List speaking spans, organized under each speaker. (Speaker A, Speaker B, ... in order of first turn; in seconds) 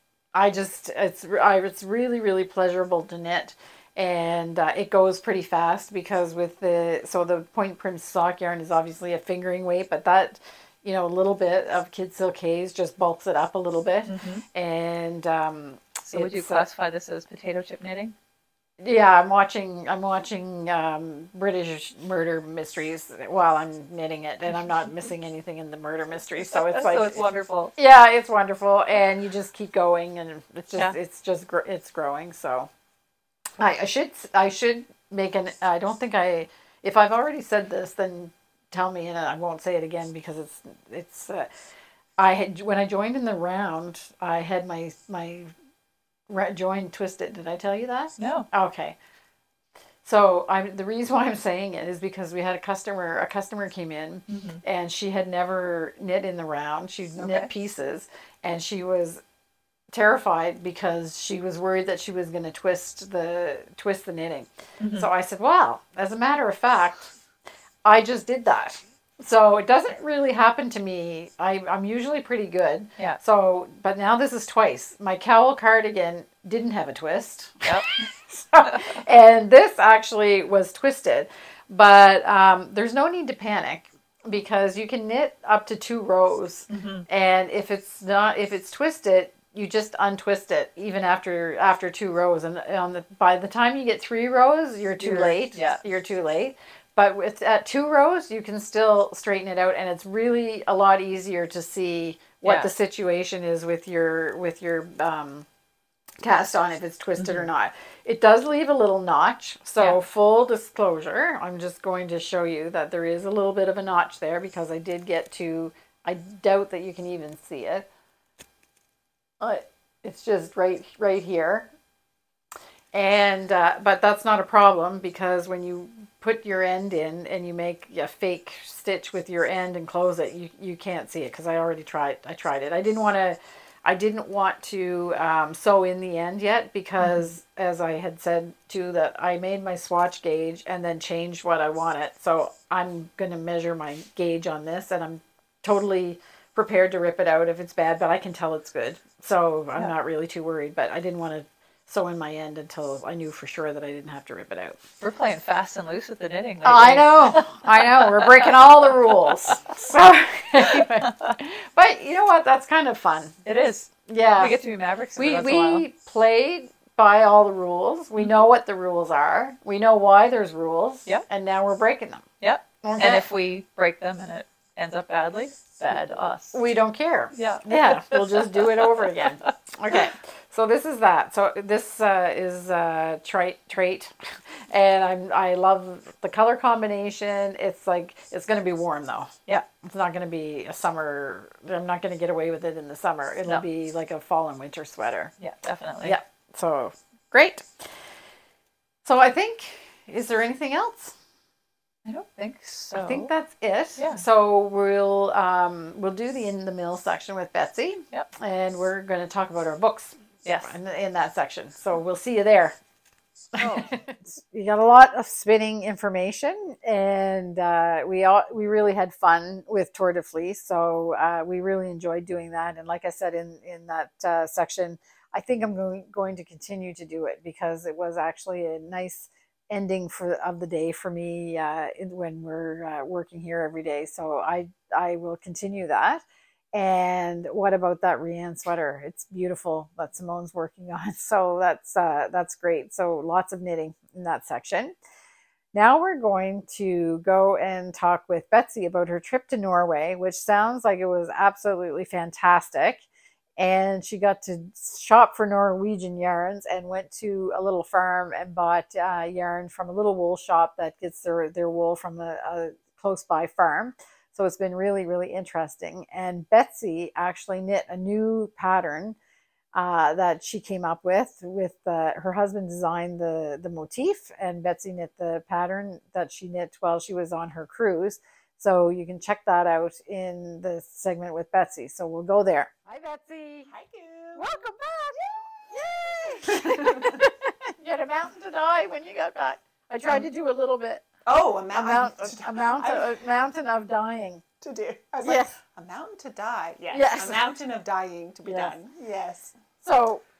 Speaker A: 0.3-16.6, 18.8-27.2, 27.8-32.7, 33.6-41.5, 42.2-45.5, 46.3-49.0, 50.0-59.2, 59.9-67.1, 67.8-105.5, 106.2-117.8, 119.4-121.7, 122.9-154.8, 156.6-163.3, 164.1-164.6, 165.2-172.2, 172.8-173.2, 176.5-195.3, 196.0-197.9, 199.0-201.1, 202.9-212.8, 213.6-236.2, 236.7-244.9, 245.7-253.1, 253.6-269.2, 269.7-283.7, 284.4-291.1, 291.7-294.4, 295.2-295.5, 296.9-297.4, 298.4-298.7, 299.8-300.2
Speaker B: 14.1-14.4, 16.1-18.1, 26.5-27.7, 48.2-48.5, 54.3-54.6, 57.1-57.5, 64.8-65.1, 77.6-77.9, 78.6-78.9, 86.7-87.0, 95.0-95.8, 102.4-102.7, 107.2-107.5, 137.0-137.3, 155.0-158.5, 160.7-161.3, 163.4-165.8, 172.4-176.6, 177.3-180.1, 195.4-196.2, 202.0-203.3, 204.0-204.2, 210.4-210.7, 213.6-213.9
Speaker C: 283.7-284.5, 286.5-287.2, 291.2-293.1, 294.6-299.5